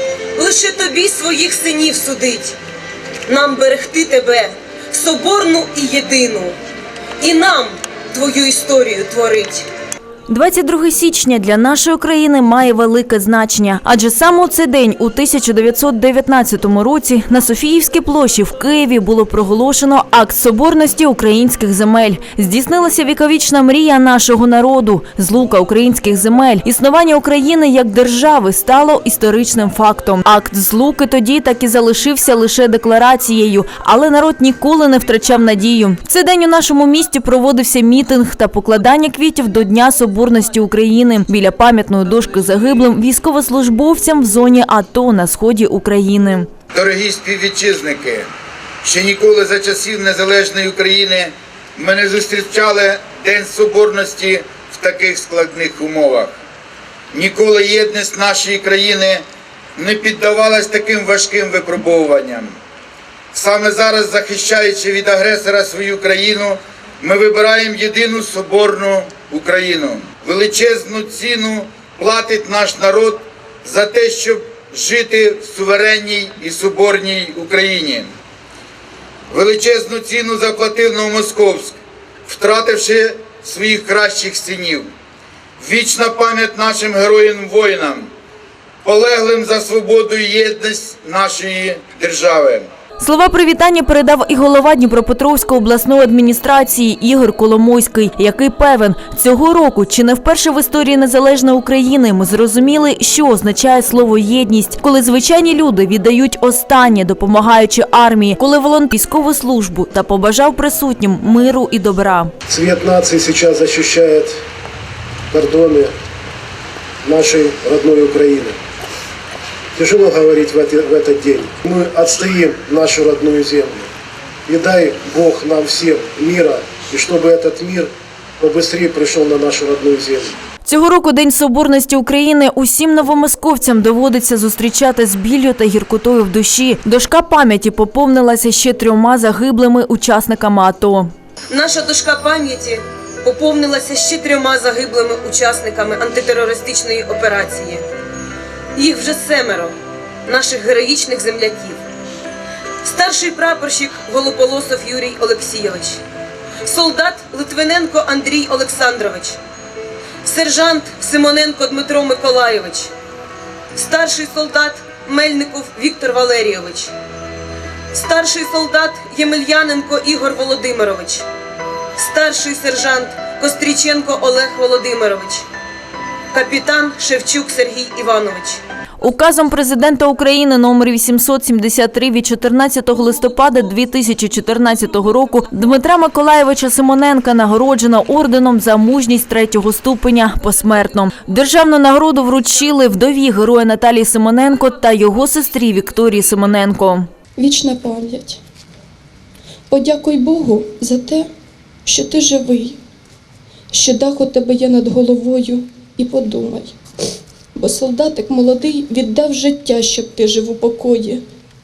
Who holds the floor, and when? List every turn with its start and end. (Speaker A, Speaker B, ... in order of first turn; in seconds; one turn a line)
Speaker A: 0.3-2.5
Speaker A: 3.2-6.5
Speaker A: 7.2-9.7
Speaker B: 10.3-46.5
Speaker C: 46.7-48.3
Speaker C: 48.8-56.4
Speaker C: 57.1-62.5
Speaker C: 63.3-78.1
Speaker C: 79.3-84.9
Speaker C: 85.6-88.1
Speaker C: 88.8-92.7
Speaker B: 93.0-112.3
Speaker D: 112.5-114.4
Speaker D: 115.3-115.9
Speaker D: 117.0-118.6
Speaker D: 119.7-123.9
Speaker D: 124.5-130.4
Speaker B: 130.6-141.1
Speaker A: 141.5-147.8
Speaker A: 148.7-149.7
Speaker A: 150.2-151.8
Speaker A: 152.8-156.0
Speaker A: 156.6-159.4
Speaker A: 160.2-162.9
Speaker A: 163.7-166.9
Speaker A: 167.9-171.2
Speaker A: 172.0-175.4
Speaker A: 176.3-178.6
Speaker B: 179.0-197.1
Speaker E: 197.4-198.4
Speaker E: 199.7-201.3
Speaker E: 201.8-202.8
Speaker E: 203.7-206.8
Speaker E: 207.6-211.2